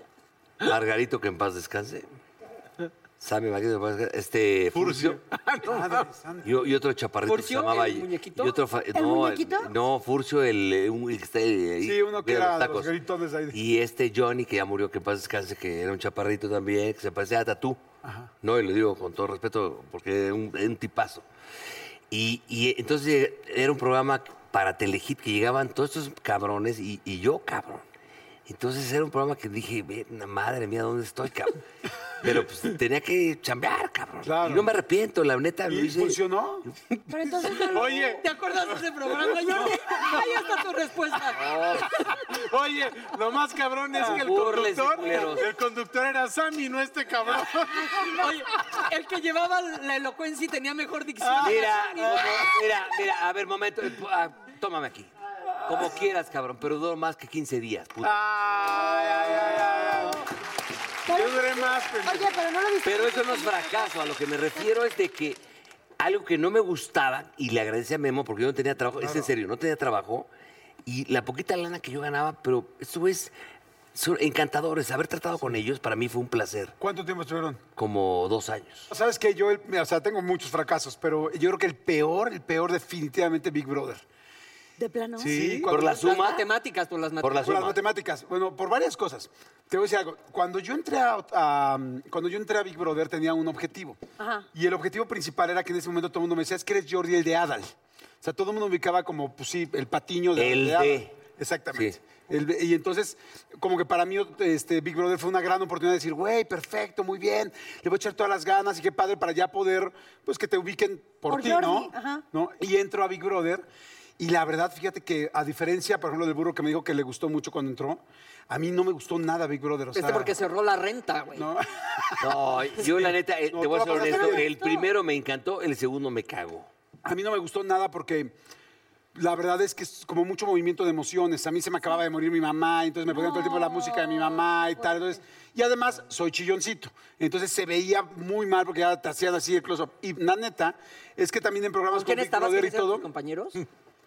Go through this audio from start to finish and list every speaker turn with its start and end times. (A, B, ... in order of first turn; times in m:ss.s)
0:00.6-0:02.1 A
0:03.2-0:05.2 A
0:04.7-0:06.1 B
0:05.6-0:06.6 C
0:06.4-0:12.9 A
0:07.3-0:08.6 D
0:08.9-0:09.7 E
0:11.8-0:13.6 C
0:13.5-0:17.8 A
0:18.0-0:18.3 C
0:18.4-0:21.3 A
0:22.1-0:27.8 A
0:28.5-0:31.6 A
0:32.2-0:37.0 A
0:34.2-0:34.7 C
0:35.7-0:36.6 C
0:37.1-0:38.2 E
0:37.7-0:38.2 B
0:38.2-0:41.4 D
0:39.6-0:40.2 B
0:41.3-0:42.0 A
0:42.3-0:48.3 B
0:44.0-0:44.2 C
0:44.0-0:45.5 A
0:47.7-0:48.2 E
0:48.0-0:52.5 D
0:51.3-0:51.6 B
0:51.4-0:55.1 A
0:55.7-0:58.2 A
0:58.0-1:00.3 B
0:58.7-1:00.2 E
1:01.1-1:04.7 E
1:01.1-1:02.4 B
1:02.8-1:05.4 A
1:06.0-1:10.3 A
1:09.0-1:09.3 C
1:10.9-1:13.3 A
1:13.9-1:16.8 A
1:16.8-1:17.6 C
1:17.8-1:18.9 A
1:18.9-1:24.0 C
1:24.8-1:25.6 E
1:25.2-1:25.7 B
1:25.2-1:26.2 C
1:25.7-1:26.5 A
1:25.9-1:27.6 D
1:27.2-1:27.8 A
1:27.4-1:34.0 C
1:34.2-1:34.5 E
1:34.5-1:53.7 C
1:40.4-1:41.2 A
1:51.3-1:52.2 E
1:54.2-2:00.4 C
2:00.0-2:01.5 D
2:01.4-2:04.5 C
2:02.2-2:06.7 A
2:03.8-2:04.9 E
2:07.0-2:08.4 C
2:09.1-2:23.1 C
2:13.1-2:15.0 E
2:21.9-2:23.6 D